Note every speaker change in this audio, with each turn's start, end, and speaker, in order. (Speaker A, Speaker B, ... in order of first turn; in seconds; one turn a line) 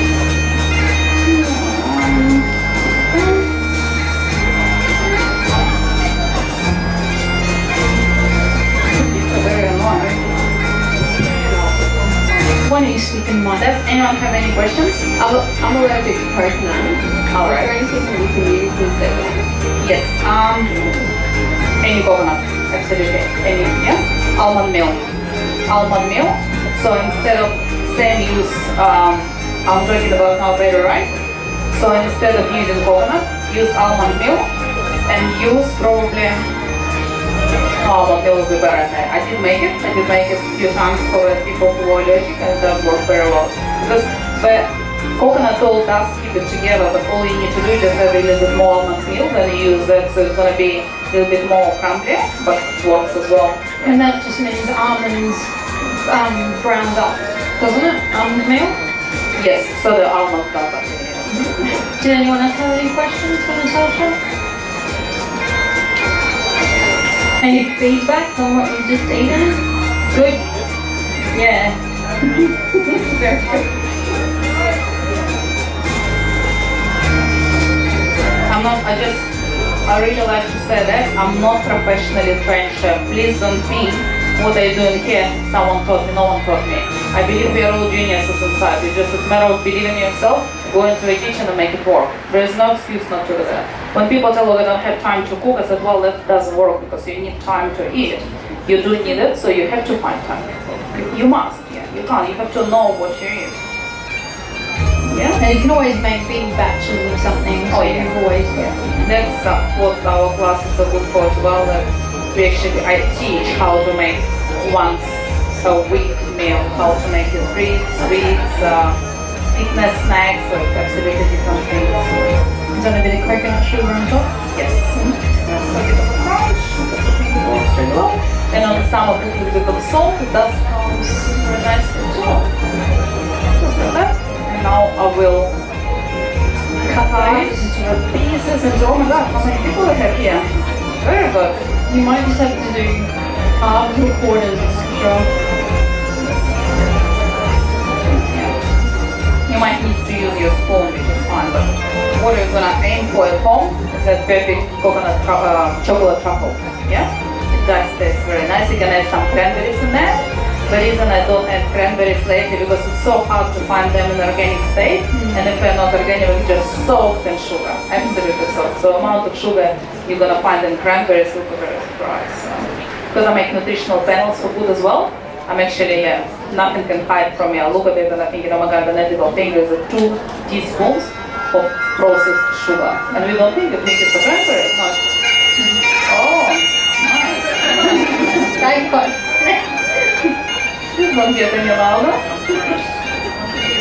Speaker A: 1.2-2.4
Speaker A: 3.1-3.4
Speaker A: 8.9-10.1
Speaker B: 12.6-13.7
Speaker A: 13.6-15.0
Speaker C: 15.2-19.4
Speaker A: 17.3-17.7
Speaker A: 19.8-20.7
Speaker A: 21.8-25.1
Speaker A: 25.7-31.1
Speaker A: 31.7-34.5
Speaker A: 35.1-36.4
Speaker A: 37.8-53.9
Speaker B: 53.8-58.8
Speaker A: 59.3-61.8
Speaker B: 61.3-64.2
Speaker B: 67.4-69.6
Speaker B: 70.1-70.4
Speaker B: 71.3-73.6
Speaker A: 78.5-79.3
Speaker A: 79.8-103.5
Speaker A: 105.1-105.4
Speaker B: 105.4-108.8
Speaker A: 107.7-108.1
Speaker A: 109.0-119.0
Speaker A: 119.5-122.4
Speaker B: 122.7-124.3
Speaker A: 124.5-132.5
Speaker A: 133.6-135.5
Speaker A: 136.8-140.4
Speaker B: 136.9-137.8
Speaker A: 141.0-141.6
Speaker B: 141.9-145.3
Speaker A: 148.0-148.5
Speaker A: 149.5-184.9
Speaker B: 165.1-165.5
Speaker A: 186.1-188.5
Speaker B: 188.4-189.6
Speaker A: 190.9-192.2